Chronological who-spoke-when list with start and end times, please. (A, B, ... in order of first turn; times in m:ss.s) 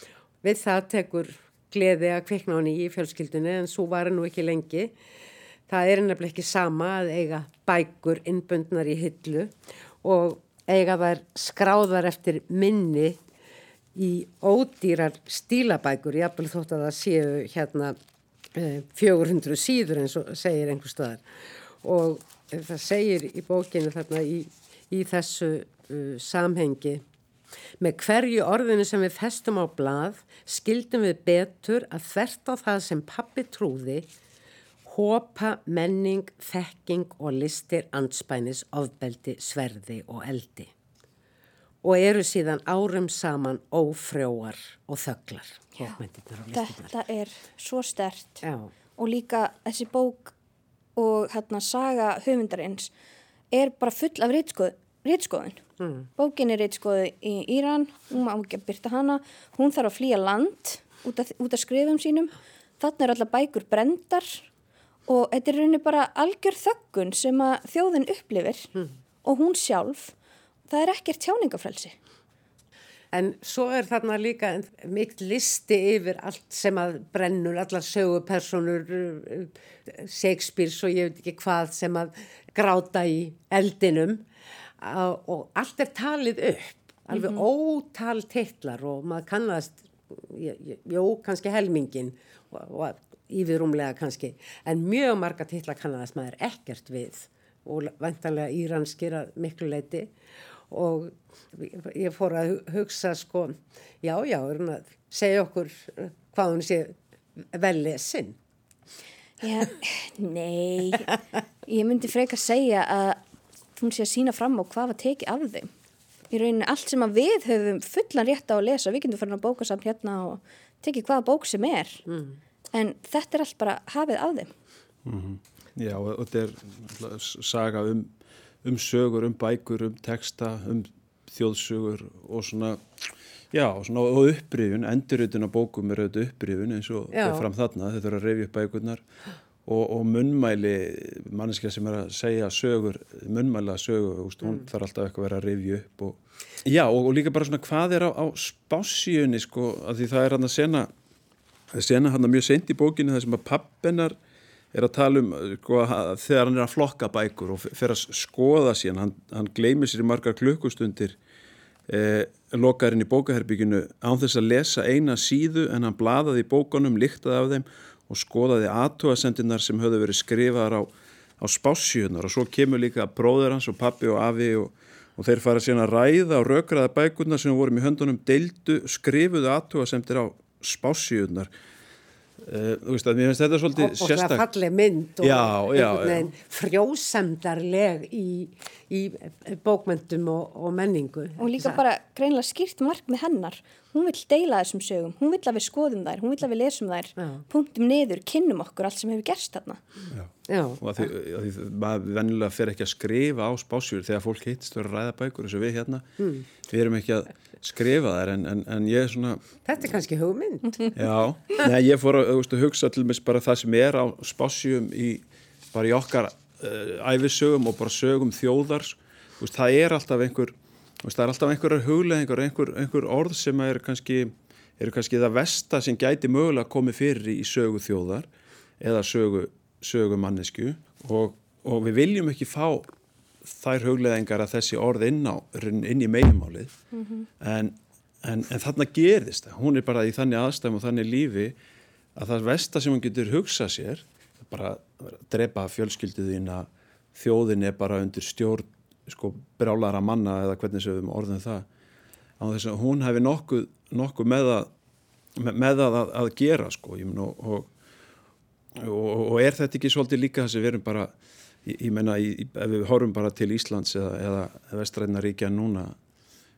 0:00.4-0:04.9 A
0:05.7-0:13.2 A
0:13.9-0:18.0 A
0:18.5-0:21.2 A
0:21.8-0:27.0 A
0:27.8-0:34.1 A
0:34.8-0:40.7 A
0:41.8-0:46.9 A
0:46.5-0:48.4 B
0:48.4-0:48.7 A
0:49.0-0:50.3 B
0:51.0-0:52.9 B
0:53.5-0:55.6 B
0:55.8-0:56.1 A
0:56.2-1:04.4 B
1:05.1-1:08.7 B
1:09.2-1:10.1 B
1:10.7-1:12.0 B
1:13.1-1:24.2 A
1:24.8-1:40.1 A
1:27.1-1:27.4 B
1:40.7-1:46.9 A
1:47.5-1:48.4 A
1:49.4-1:51.1 B
1:51.7-1:53.2 B
1:53.8-1:55.7 B
1:56.3-2:02.0 B
2:02.1-2:02.4 A
2:02.7-2:04.5 B
2:05.0-2:19.0 C
2:17.1-2:17.4 A
2:19.6-2:30.9 C
2:31.7-2:34.2 C
2:34.7-2:41.2 C
2:41.9-3:01.5 C
3:02.4-3:04.5 C
3:03.8-3:11.8 A
3:05.2-3:06.3 C
3:11.4-3:19.8 B
3:17.2-3:17.4 A
3:20.1-3:26.1 C
3:20.5-3:20.8 A
3:26.2-3:26.4 A
3:26.6-3:29.4 C
3:29.6-3:30.9 A
3:30.9-3:48.3 C
3:48.8-3:52.9 C
3:53.4-3:56.7 C
3:56.9-3:57.2 B
3:57.4-4:01.6 C
4:02.2-4:11.7 C
4:12.4-4:14.7 C
4:15.4-4:17.7 C
4:18.8-4:21.1 C
4:21.6-4:26.0 C